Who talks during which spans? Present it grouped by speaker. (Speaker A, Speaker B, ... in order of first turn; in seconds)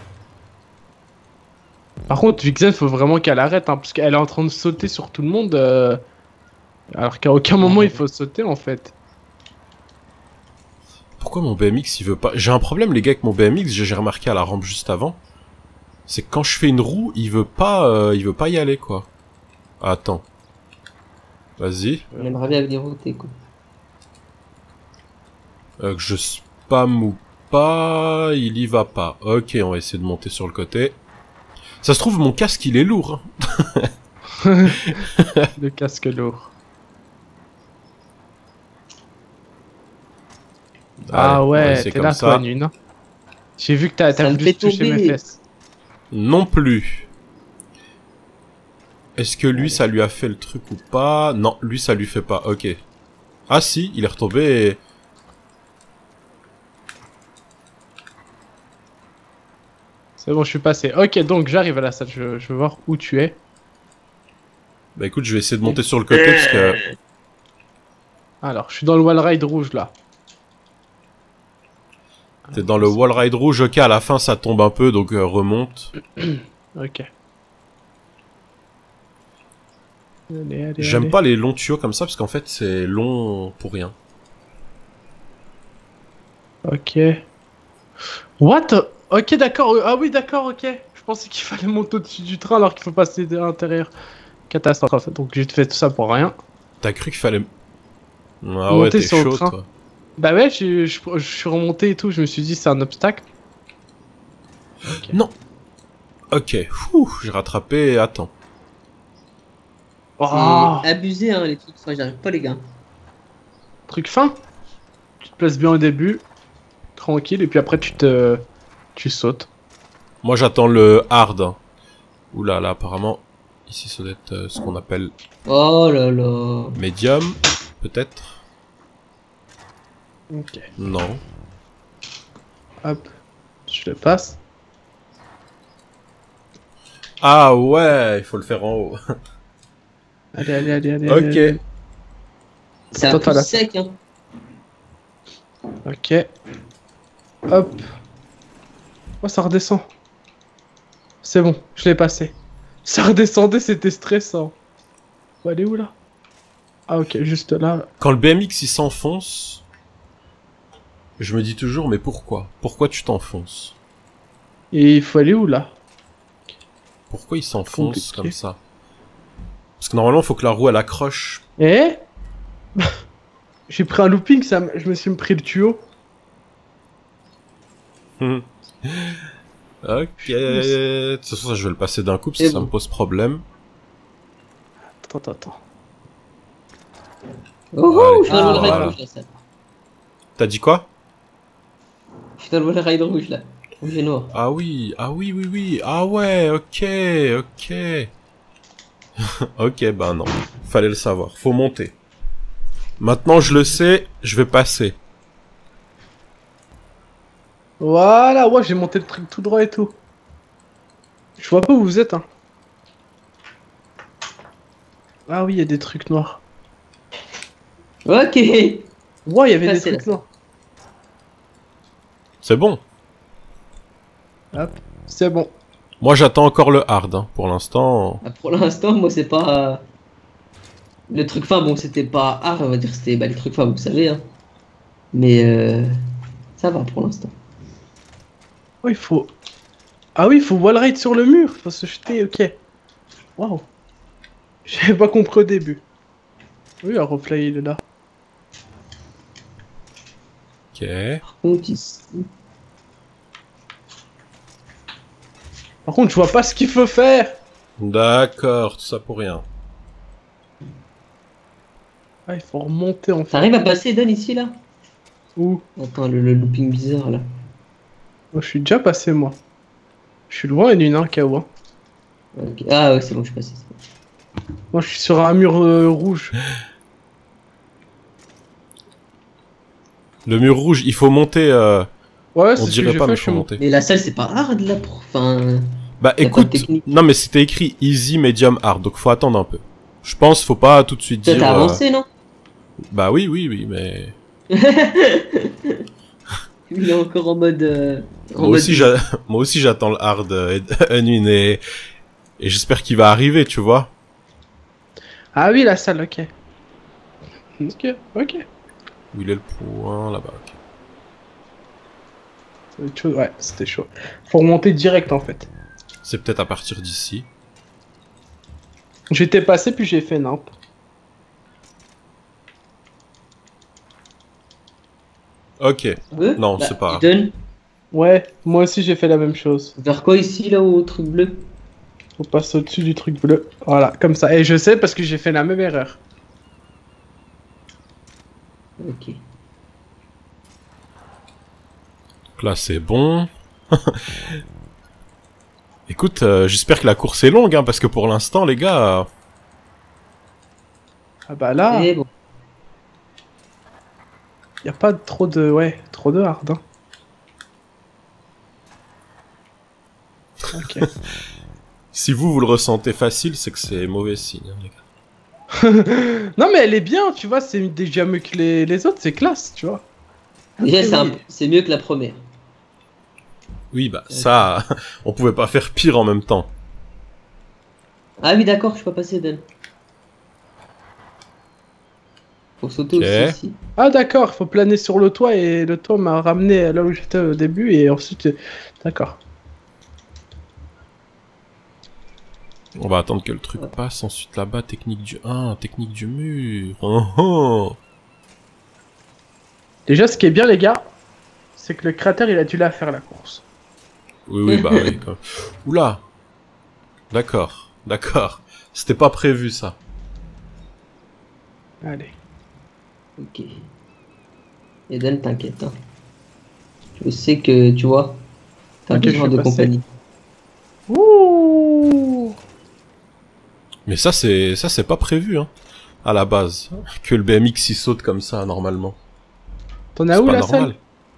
Speaker A: 2.1-6.0, 6.9-8.9, 22.1-22.4, 34.4-35.0, 35.6-36.5, 41.1-42.7, 43.6-45.4, 60.2-63.4, 68.4-69.9, 72.5-73.2, 76.2-77.1, 80.3-81.1, 86.7-87.2, 88.4-93.9, 94.5-96.4, 98.7-99.5, 100.2-103.3, 104.9-105.2, 110.2-110.9, 113.9-114.4, 115.2-116.2, 117.0-118.4, 119.0-119.5, 130.3-130.7, 132.8-133.1, 133.7-134.4, 140.3-141.6, 142.9-143.5, 145.8-146.3, 147.5-147.9, 149.2-149.9, 151.2-154.5, 155.4-155.9, 156.9-157.9, 164.7-165.8, 167.7-168.3, 171.6-172.0, 173.7-175.8, 180.2-180.8, 185.0-185.6, 188.3-188.9, 207.8-210.0, 211.4-212.2, 215.3-216.4, 219.3-220.2, 224.5-225.5, 238.8-239.3, 240.2-242.6, 243.4-243.7, 244.7-245.8, 246.8-247.8, 255.9-257.4, 262.3-263.5, 265.4-265.6, 268.3-269.4, 270.3-271.5, 274.7-276.4, 282.4-283.5, 305.4-306.3, 307.6-308.4, 312.8-315.5, 319.1-320.5, 327.9-329.8, 332.2-336.0, 351.3-351.9, 354.6-356.6, 360.5-360.9, 365.5-369.9, 370.6-371.2, 383.8-389.2, 399.9-400.9, 401.6-403.4, 411.8-412.1, 418.9-419.7, 420.9-422.4, 429.9-430.7
Speaker B: 7.6-8.0, 22.2-23.3, 44.2-45.2, 49.5-49.8, 66.1-66.8, 110.3-112.6, 125.5-126.8, 142.9-144.0, 182.4-182.7, 187.7-189.3, 192.4-194.3, 218.1-218.9, 219.6-220.2, 228.2-229.8, 231.1-234.2, 235.1-235.9, 236.6-237.3, 251.2-252.2, 263.3-264.6, 265.8-267.2, 272.4-273.8, 283.6-285.7, 286.2-286.9, 291.2-292.1, 294.5-295.8, 296.7-298.9, 326.1-327.3, 329.8-331.4, 338.8-339.2, 351.7-352.1, 370.6-372.2, 378.2-379.4, 382.6-383.6, 404.5-404.9, 413.2-413.6, 414.9-415.8, 417.0-418.2, 418.9-419.9
Speaker C: 11.2-15.2, 16.1-19.1, 19.8-20.2, 21.6-22.1, 25.8-31.0, 31.8-33.9, 34.9-35.5, 41.0-42.4, 46.1-47.1, 49.2-52.8, 53.5-54.8, 65.0-66.8, 72.5-75.9, 80.8-83.9, 96.8-97.5, 98.4-99.7, 105.1-105.3, 106.3-108.3, 120.2-121.6, 122.3-125.1, 126.8-128.4, 130.8-131.2, 137.2-139.0, 141.1-141.6, 158.0-159.7, 161.2-163.8, 167.1-168.6, 169.8-171.4, 178.2-179.2, 179.8-183.4, 187.9-188.9, 190.4-190.9, 194.3-198.1, 199.6-201.9, 203.0-205.0, 222.4-222.8, 226.0-228.2, 250.7-251.2, 257.8-259.4, 280.3-281.9, 282.6-283.6, 286.0-291.8, 292.9-294.1, 298.4-301.6, 302.4-303.9, 309.1-310.6, 316.0-317.3, 325.6-327.0, 342.4-344.0, 345.9-349.1, 361.9-364.8, 373.7-376.5, 382.9-383.4, 392.8-397.8, 404.3-406.0, 407.1-409.8, 423.9-425.5, 426.0-429.0, 430.1-430.8